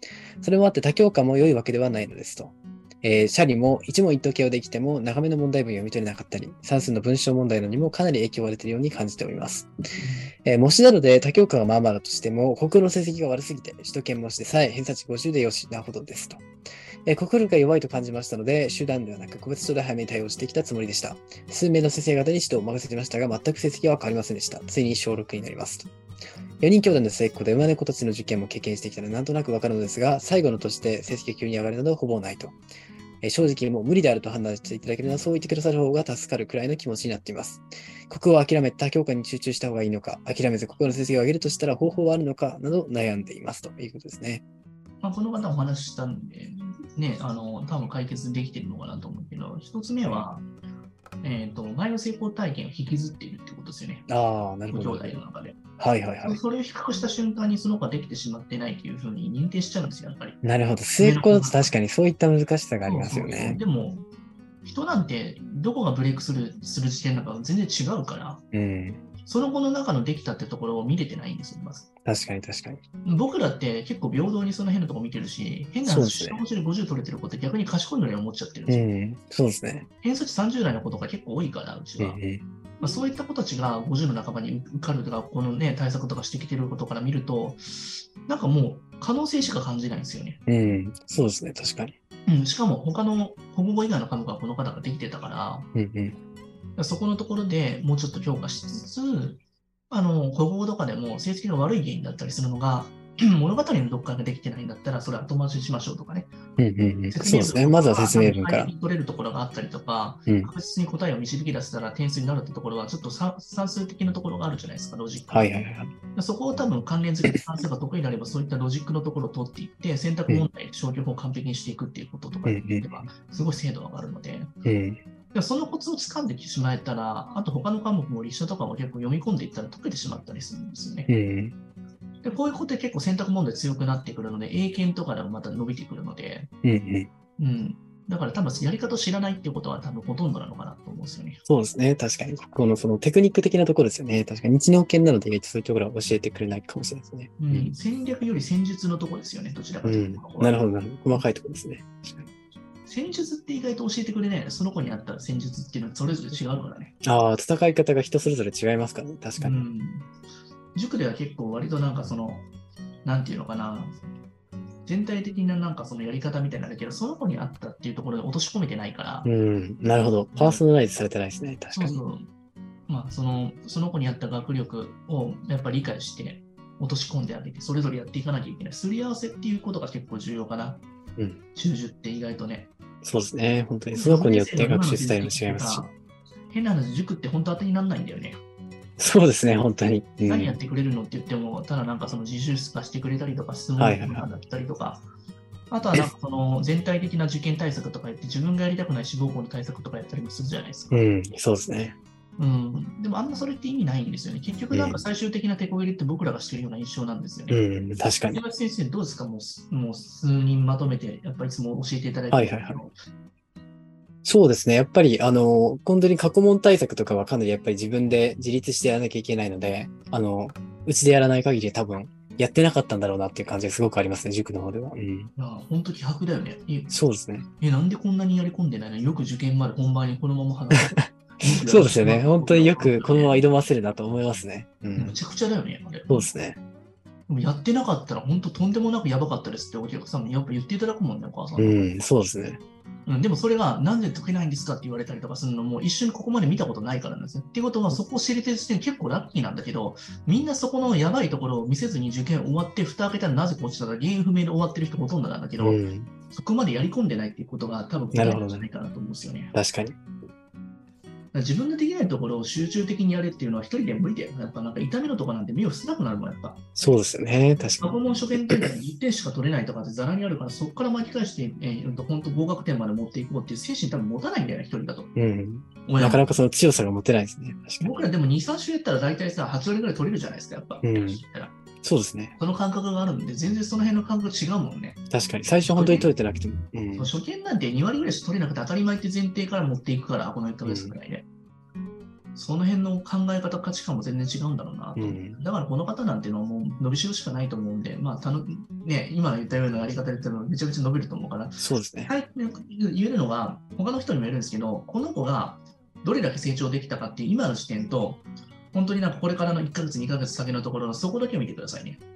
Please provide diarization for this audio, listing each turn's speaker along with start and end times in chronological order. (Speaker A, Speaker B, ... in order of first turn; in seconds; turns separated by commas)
Speaker A: 0.4-9.7, Speaker B: 10.0-10.3, Speaker A: 10.4-16.4, Speaker A: 17.1-25.9, Speaker A: 26.6-32.6, Speaker A: 33.2-44.4, Speaker B: 45.0-50.4, Speaker B: 51.2-54.1, Speaker A: 54.1-55.2, Speaker B: 54.7-55.6, Speaker A: 55.8-56.4, Speaker B: 56.2-60.4, Speaker A: 60.4-63.6, Speaker B: 61.0-61.7, Speaker B: 62.8-64.0, Speaker B: 64.6-68.4, Speaker A: 68.5-69.0, Speaker B: 69.2-71.9, Speaker A: 72.0-72.8, Speaker B: 73.0-78.8, Speaker A: 75.8-76.4, Speaker A: 78.7-79.9, Speaker B: 80.0-82.2, Speaker A: 82.0-82.4, Speaker B: 82.8-90.4, Speaker A: 90.5-91.9, Speaker B: 92.3-95.7, Speaker A: 95.7-96.2, Speaker B: 96.8-106.3, Speaker A: 106.6-108.7, Speaker B: 107.1-115.6, Speaker A: 115.3-115.9, Speaker B: 116.1-124.5, Speaker A: 122.5-123.0, Speaker A: 124.6-125.0, Speaker B: 125.3-131.1, Speaker A: 131.1-131.5, Speaker B: 132.2-136.5, Speaker A: 136.6-137.1, Speaker B: 137.4-141.4, Speaker A: 141.5-147.7, Speaker B: 147.4-150.6, Speaker A: 149.8-152.3, Speaker B: 152.9-156.9, Speaker A: 157.0-159.7, Speaker B: 159.4-160.1, Speaker B: 160.7-162.4, Speaker B: 163.0-164.0, Speaker B: 164.8-169.3, Speaker A: 169.2-172.0, Speaker B: 170.3-170.6, Speaker B: 171.7-172.2, Speaker B: 172.9-180.8, Speaker B: 181.5-182.7, Speaker A: 183.0-185.8, Speaker B: 183.9-185.9, Speaker B: 186.5-188.4, Speaker A: 189.0-190.6, Speaker B: 190.2-195.0, Speaker A: 193.8-194.3, Speaker B: 195.7-201.0, Speaker A: 200.9-201.9, Speaker B: 202.4-207.6, Speaker A: 204.7-205.0, Speaker A: 207.5-208.4, Speaker B: 208.3-212.9, Speaker A: 212.3-212.8, Speaker A: 214.2-225.3, Speaker B: 225.3-226.9, Speaker A: 226.9-227.5, Speaker B: 227.6-233.4, Speaker A: 230.7-231.1, Speaker A: 231.6-235.2, Speaker B: 234.9-236.3, Speaker A: 236.1-236.6, Speaker B: 237.3-241.8, Speaker A: 241.6-242.6, Speaker B: 243.1-255.8, Speaker A: 255.6-256.1, Speaker B: 256.3-259.5, Speaker A: 258.1-258.7, Speaker A: 259.5-259.9, Speaker B: 261.3-266.7, Speaker A: 266.8-268.7, Speaker B: 267.8-275.1, Speaker A: 275.1-278.0, Speaker B: 275.9-276.2, Speaker B: 277.8-281.5, Speaker A: 280.8-281.2, Speaker A: 281.8-282.4, Speaker B: 282.4-285.0, Speaker A: 285.1-287.1, Speaker B: 285.7-286.1, Speaker B: 286.9-291.2, Speaker A: 290.6-291.0, Speaker B: 292.3-312.0, Speaker A: 294.9-295.4, Speaker A: 301.6-302.1